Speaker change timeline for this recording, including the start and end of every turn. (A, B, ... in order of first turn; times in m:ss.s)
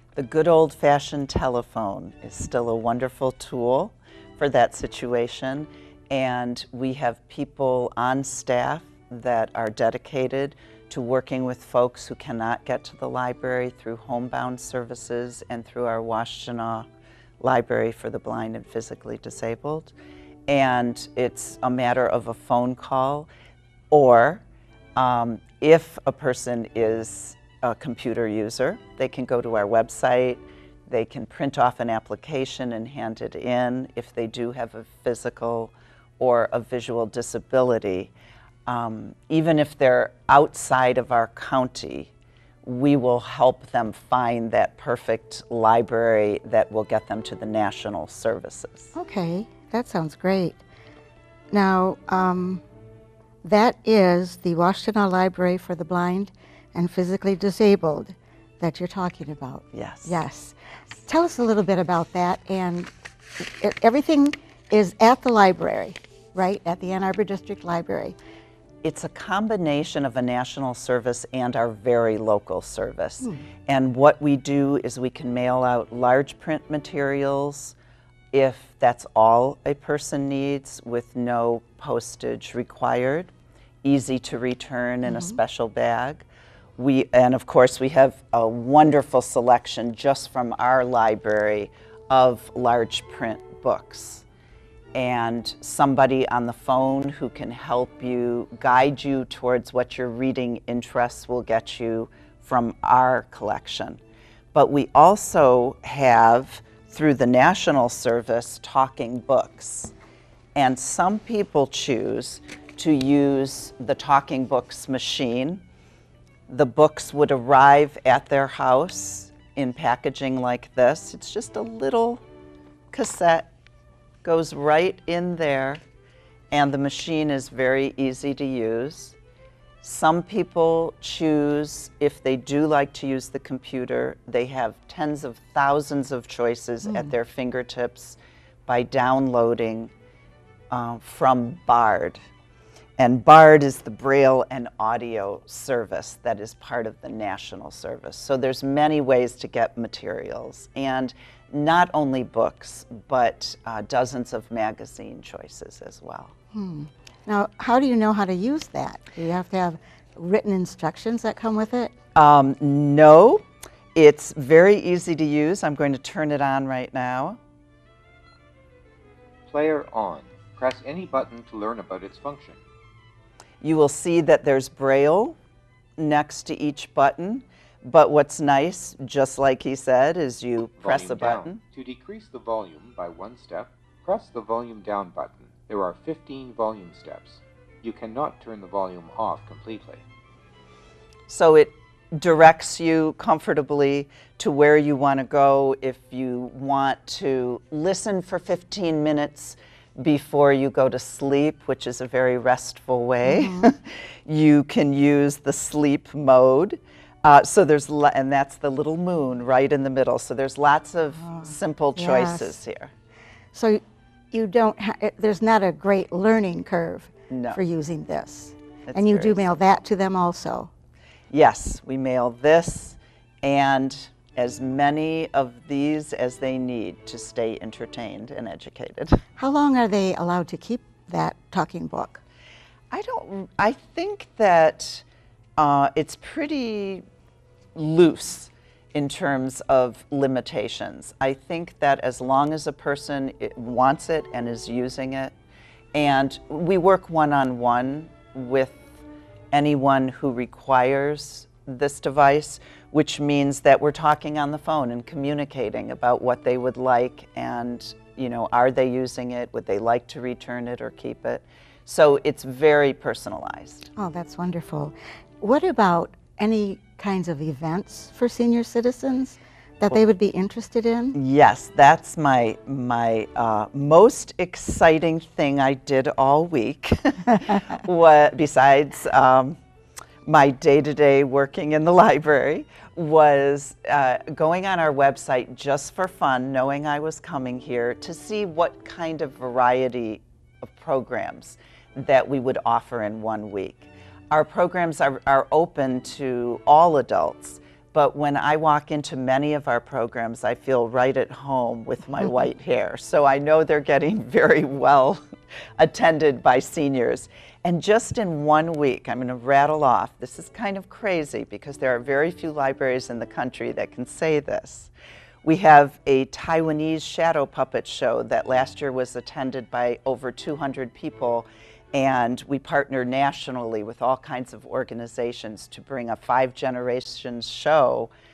0:00.1-0:16.8 A
0:17.4-0:19.9 A
0:20.5-0:23.3 A
0:23.9-0:24.4 A
0:25.0-0:38.1 A
0:38.7-0:42.1 A
0:42.6-0:48.9 A
0:48.9-0:50.6 B
0:51.5-0:52.6 B
0:53.4-1:02.9 B
0:59.7-1:00.2 A
1:03.4-1:08.2 B
1:08.8-1:17.7 A
1:18.3-1:23.3 A
1:23.8-1:26.2 A
1:25.0-1:25.4 B
1:26.8-1:34.2 A
1:34.9-1:44.0 A
1:44.5-1:49.9 A
1:50.5-1:55.6 A
1:56.5-2:02.2 A
2:02.9-2:03.5 A
2:04.2-2:05.8 A
2:06.5-2:09.2 A
2:09.8-2:19.9 A
2:20.7-2:22.2 A
2:23.0-2:36.3 A
2:36.5-2:41.9 B
2:42.1-2:43.4 A
2:43.9-2:47.4 A
2:49.5-2:52.6 C
2:53.6-2:55.4 A
2:56.0-3:01.6 A
3:00.8-3:10.0 C
3:11.3-3:32.9 A
3:23.2-3:23.7 B
3:31.2-3:32.6 B
3:33.5-3:33.8 B
3:34.3-3:40.7 B
3:37.3-3:37.6 A
3:38.9-3:39.5 A
3:41.3-3:49.2 A
3:49.4-3:52.2 B
3:52.9-3:55.0 A
3:55.6-3:57.0 A
3:57.7-4:05.3 A
4:05.9-4:09.0 A
4:09.5-4:23.9 A
4:24.0-4:31.2 B
4:31.1-4:39.6 A
4:40.2-5:05.2 A
5:05.8-5:14.9 A
5:15.4-5:28.1 A